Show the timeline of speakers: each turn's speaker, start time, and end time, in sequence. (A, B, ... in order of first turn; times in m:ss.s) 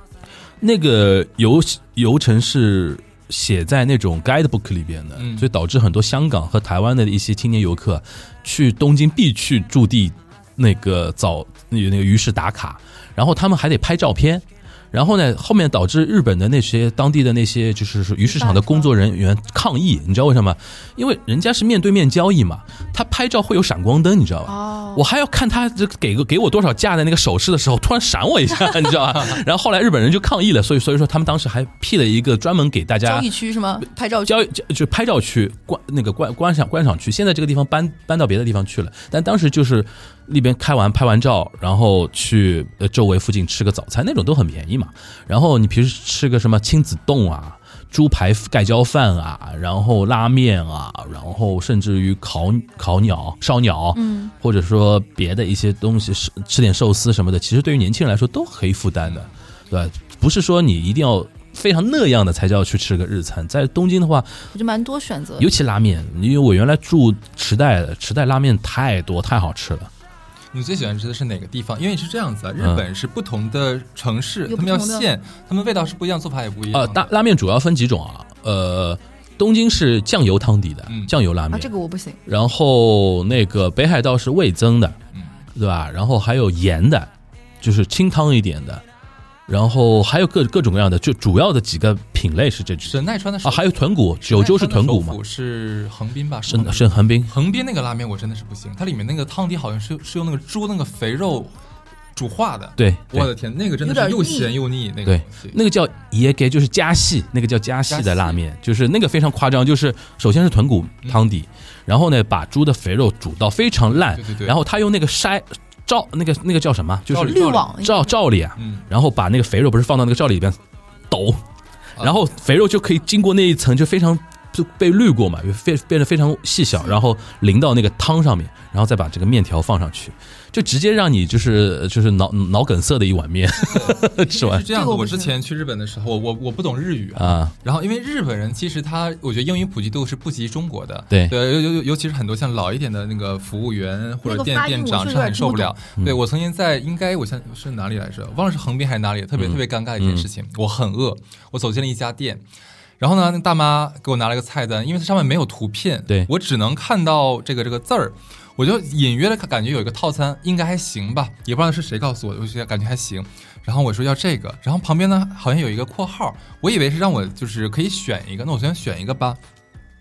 0:00.6-0:33.3 A
0:05.2-0:05.5 B
0:18.2-0:18.9 C
0:24.4-0:25.0 C
0:33.0-0:34.5 C
0:34.3-1:04.5 A
0:53.9-0:54.3 C
1:04.5-1:05.5 C
1:05.4-1:09.9 A
1:10.5-1:17.1 B
1:14.5-1:15.1 C
1:16.7-1:21.7 A
1:20.9-1:21.1 B
1:21.5-1:22.2 C
1:22.2-1:25.0 A
1:25.1-1:25.4 B
1:25.5-1:28.8 A
1:29.5-1:35.2 A
1:32.9-1:41.5 B
1:36.5-1:37.3 A
1:42.1-1:45.6 B
1:42.8-1:43.3 A
1:43.8-1:44.5 C
1:45.0-2:00.6 A
1:47.9-1:48.4 B
1:53.9-1:54.6 B
1:57.1-1:57.7 B
1:57.2-1:58.1 C
1:58.6-1:58.8 B
2:01.1-2:01.4 A
2:02.0-2:14.7 A
2:13.7-2:32.4 B
2:14.7-2:15.3 C
2:17.2-2:17.5 A
2:21.1-2:21.4 A
2:24.2-2:25.7 C
2:29.4-2:30.3 A
2:33.0-2:49.4 B